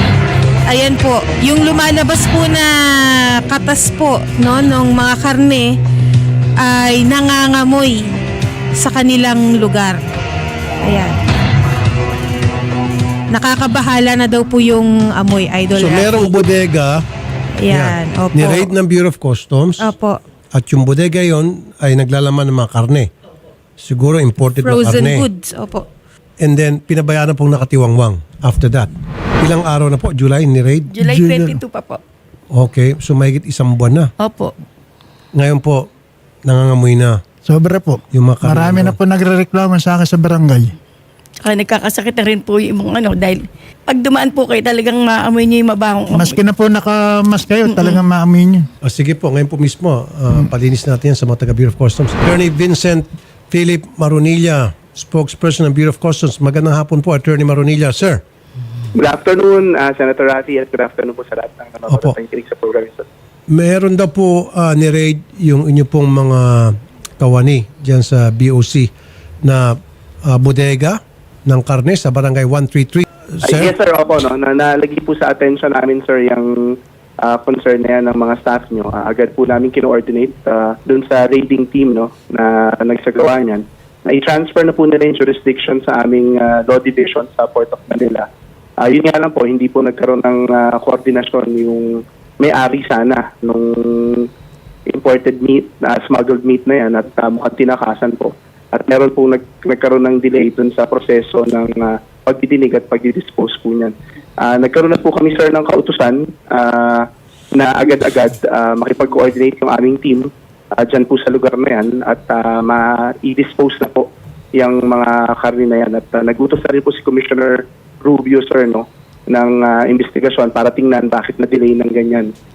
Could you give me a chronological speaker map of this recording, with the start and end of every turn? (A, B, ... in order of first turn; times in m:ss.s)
0:00.7-0:02.7 A
0:03.5-0:05.7 A
0:06.6-0:08.1 A
0:08.8-0:10.0 A
0:10.8-0:11.2 A
0:13.3-0:16.4 A
0:15.8-0:17.0 B
0:17.6-0:18.7 A
0:17.7-0:19.9 B
0:19.8-0:20.2 A
0:20.5-0:23.1 B
0:23.8-0:25.3 B
0:24.6-0:25.9 A
0:26.4-0:28.9 B
0:29.4-0:31.5 B
0:30.9-0:32.0 C
0:32.5-0:34.1 B
0:34.2-0:34.5 C
0:35.4-0:35.9 B
0:36.5-0:37.2 B
0:37.4-0:40.8 D
0:38.1-0:39.0 B
0:41.4-0:46.4 C
0:46.1-0:48.7 D
0:47.6-0:48.0 C
0:48.8-0:58.2 B
0:59.0-1:03.1 E
1:01.9-1:02.1 B
1:03.5-1:08.9 B
1:09.4-1:09.7 B
1:10.3-1:13.7 B
1:13.4-1:28.3 E
1:28.8-1:34.3 E
1:34.9-2:02.3 E